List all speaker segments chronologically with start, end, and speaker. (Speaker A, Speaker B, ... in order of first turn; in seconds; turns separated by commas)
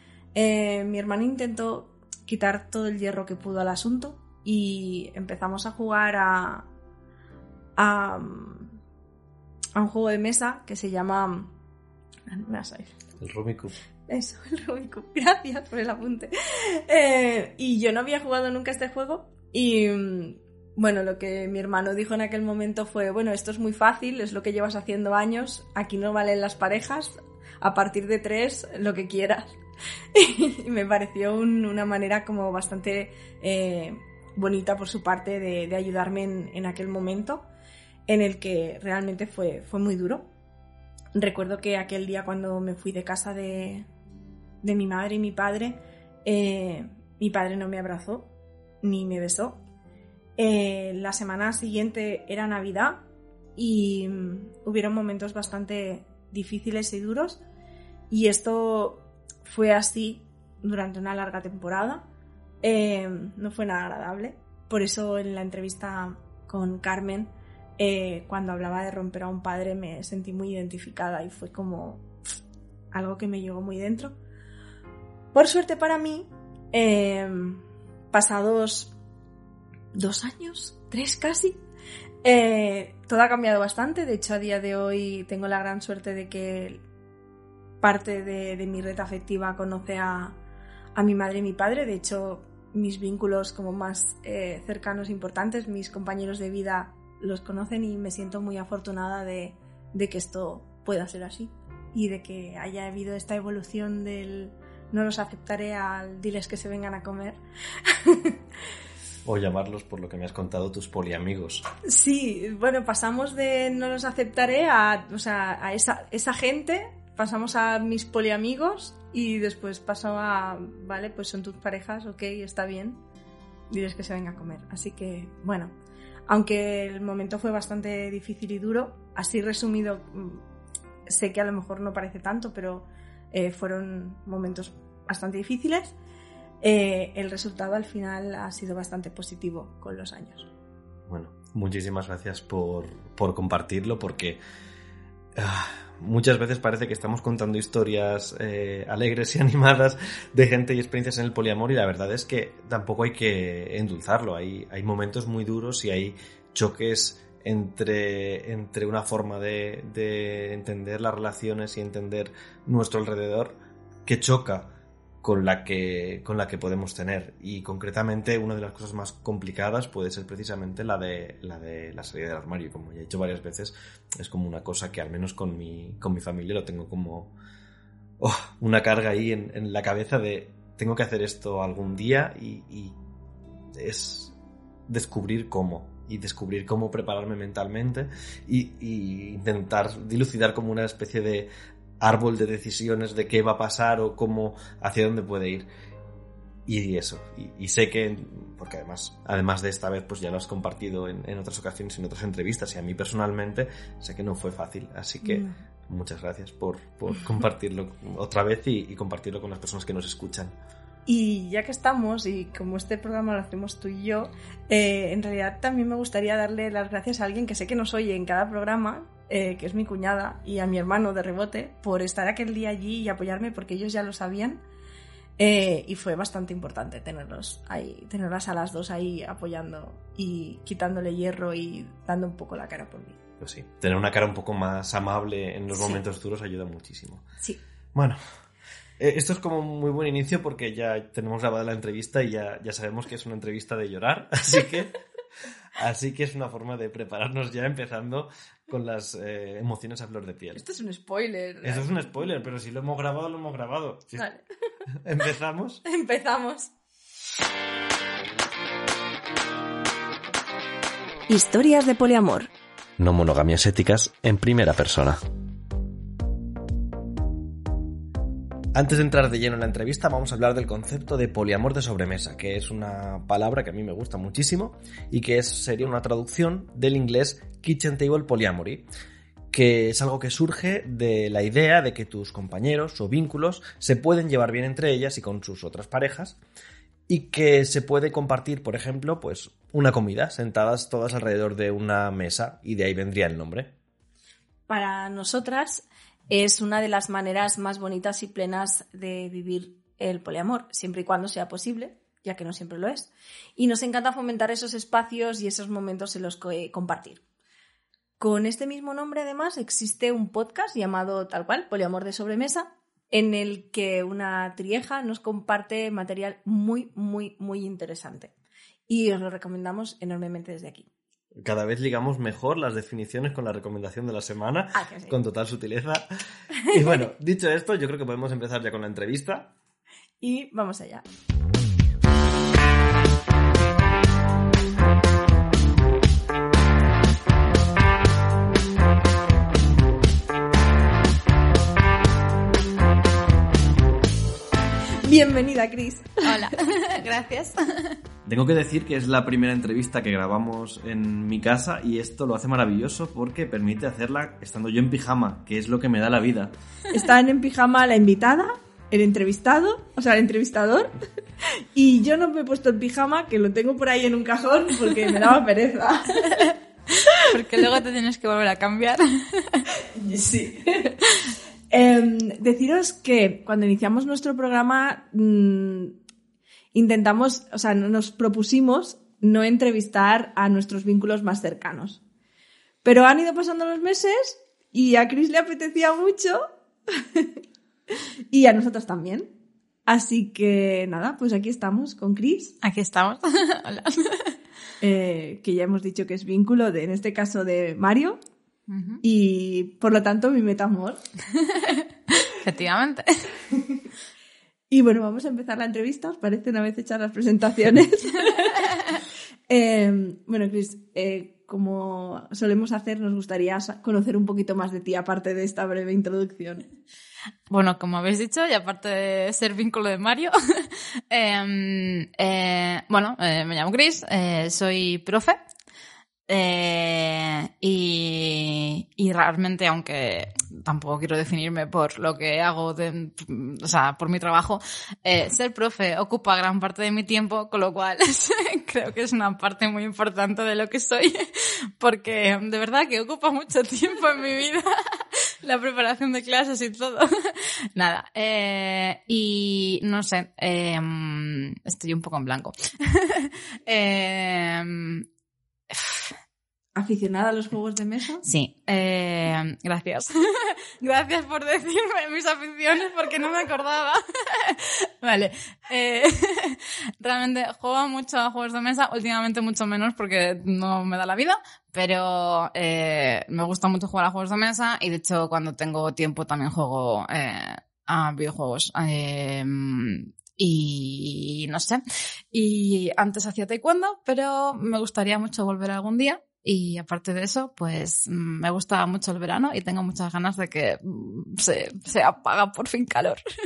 Speaker A: 0.3-6.7, Speaker A: 7.8-8.7, Speaker A: 9.7-11.5, Speaker A: 12.3-13.0, Speaker B: 13.2-13.8, Speaker A: 14.1-29.6, Speaker A: 30.1-37.5, Speaker A: 38.1-40.3, Speaker A: 41.1-43.9, Speaker A: 44.6-48.3, Speaker A: 48.8-49.6, Speaker A: 50.4-53.0, Speaker A: 53.5-57.4, Speaker A: 58.1-62.0, Speaker A: 62.6-72.1, Speaker A: 72.9-74.2, Speaker A: 75.3-78.9, Speaker A: 79.9-81.6, Speaker A: 82.2-86.8, Speaker A: 87.8-90.4, Speaker A: 90.9-108.4, Speaker B: 109.2-111.7, Speaker A: 111.8-123.0, Speaker A: 123.7-125.7, Speaker A: 126.3-130.4, Speaker A: 131.1-135.9, Speaker A: 136.6-140.5, Speaker B: 141.1-144.4, Speaker B: 145.3-163.5, Speaker B: 164.1-164.7, Speaker B: 165.2-177.3, Speaker B: 178.2-183.0, Speaker B: 183.7-184.3, Speaker B: 184.9-191.5, Speaker B: 192.0-195.7, Speaker B: 196.7-210.5, Speaker A: 205.2-205.6, Speaker A: 211.1-224.6, Speaker A: 225.4-233.2, Speaker B: 233.4-237.2, Speaker A: 235.7-236.0, Speaker B: 237.9-238.2, Speaker B: 239.0-244.9, Speaker B: 245.8-250.6, Speaker A: 250.5-252.0, Speaker B: 251.6-254.3, Speaker A: 254.2-254.4, Speaker B: 255.0-255.8, Speaker A: 255.8-256.7, Speaker A: 261.3-262.5, Speaker B: 263.0-265.2, Speaker B: 268.7-278.9, Speaker B: 279.5-286.4, Speaker B: 287.1-293.7, Speaker A: 294.7-307.2, Speaker A: 308.2-318.3, Speaker A: 318.9-320.9, Speaker B: 321.4-326.0, Speaker A: 324.7-325.2, Speaker B: 326.7-329.5, Speaker A: 330.2-331.0, Speaker A: 345.0-346.6, Speaker C: 346.2-348.0, Speaker B: 348.2-356.5, Speaker A: 356.9-366.4, Speaker C: 366.3-369.7, Speaker A: 367.3-367.7, Speaker A: 369.8-371.0, Speaker A: 371.7-376.0, Speaker A: 376.7-382.0, Speaker A: 382.8-389.3, Speaker A: 389.9-392.6, Speaker C: 392.6-394.4, Speaker A: 394.8-398.2, Speaker C: 398.7-399.0, Speaker A: 399.0-401.0, Speaker C: 401.3-403.3, Speaker A: 404.7-408.8, Speaker A: 409.5-416.7, Speaker C: 417.5-425.4, Speaker C: 426.3-455.1, Speaker C: 455.7-456.1, Speaker A: 456.7-458.2, Speaker C: 458.2-493.2